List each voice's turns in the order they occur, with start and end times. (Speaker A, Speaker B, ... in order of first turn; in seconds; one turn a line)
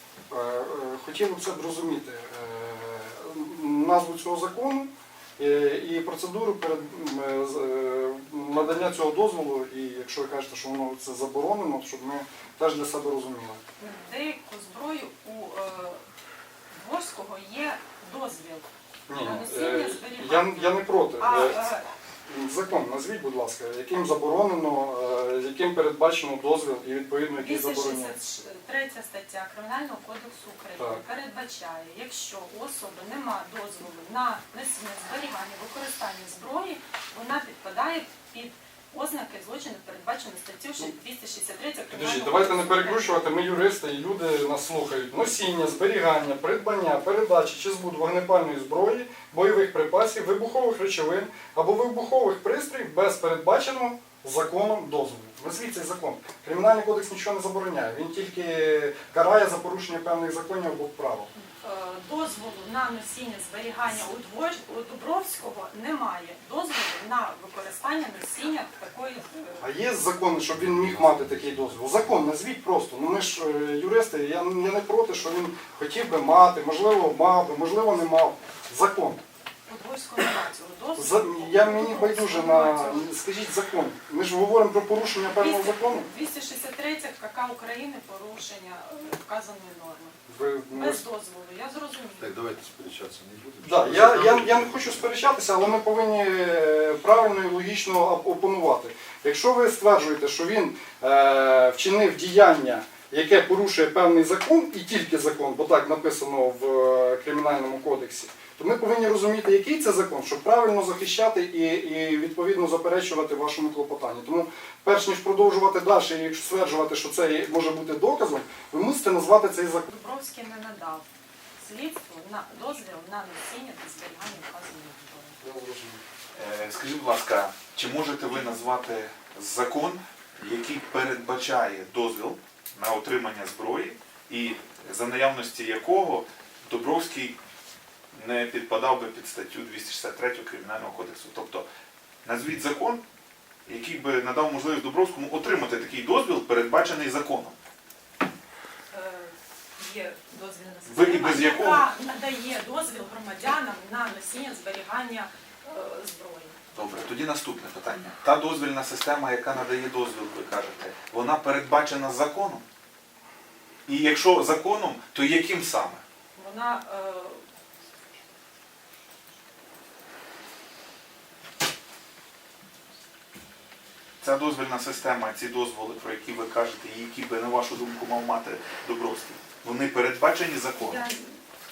Speaker A: 0.3-13.6
Speaker B: 13.8-16.0
Speaker B: 16.7-18.7
Speaker A: 19.1-21.7
Speaker B: 19.2-21.9
Speaker A: 22.3-28.2
Speaker B: 27.4-43.2
Speaker A: 41.9-61.3
Speaker B: 61.4-69.7
Speaker A: 69.6-79.2
Speaker C: 70.6-71.7
Speaker B: 79.7-83.1
Speaker A: 81.0-86.1
Speaker B: 85.4-90.2
Speaker A: 90.3-91.0
Speaker B: 90.7-92.3
Speaker C: 92.2-95.0
Speaker A: 93.6-119.9
Speaker B: 119.9-121.0
Speaker B: 121.6-125.4
Speaker A: 125.4-126.0
Speaker D: 126.3-137.4
Speaker D: 138.1-141.7
Speaker D: 142.2-143.0
Speaker D: 143.7-147.6
Speaker B: 148.9-156.6
Speaker D: 150.9-151.8
Speaker D: 156.8-162.6
Speaker D: 163.9-166.0
Speaker B: 166.4-167.4
Speaker D: 174.2-181.0
Speaker B: 180.8-181.4